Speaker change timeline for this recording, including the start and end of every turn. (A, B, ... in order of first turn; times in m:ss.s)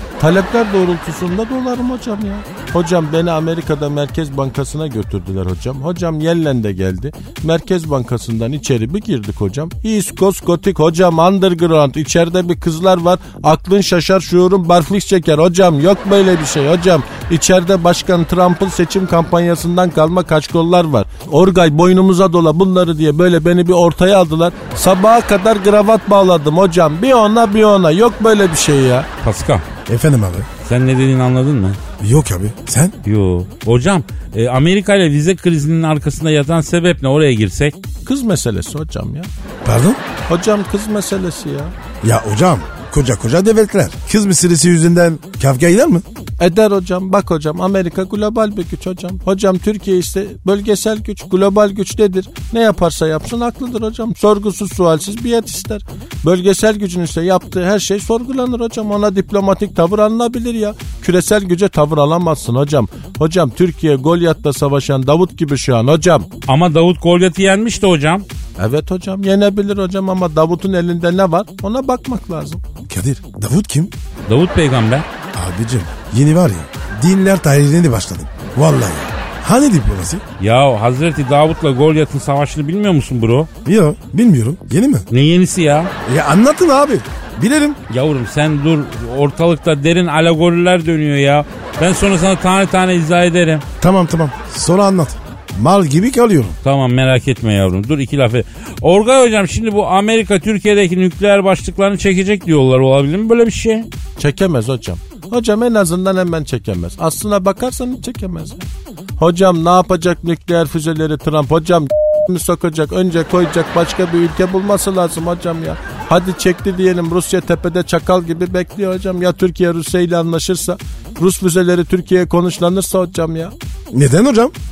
0:00.2-0:29.1 A
0:29.2-0:29.6 B
0:29.9-0:30.5 C
0:30.6-0:31.8 B
0:32.0-0:32.9 C
0:33.0-0:37.8 B
0:38.0-0:39.3 A
0:39.6-0:40.0 C
0:40.3-0:41.7 A
0:42.0-0:46.0 C
0:46.4-1:06.3 A
1:06.5-1:08.2 B
1:08.6-1:12.6 A
1:12.9-1:13.9 C
1:14.3-1:15.0 B
1:15.3-1:20.2 C
1:20.4-1:23.5 B
1:23.6-1:25.1 C
1:25.1-1:25.9 B
1:26.0-1:27.8 C
1:27.9-1:33.6 B
1:33.8-1:36.6 C
1:36.6-1:43.9 B
1:44.2-1:48.6 A
1:49.2-2:03.5 A
2:03.9-2:04.5 C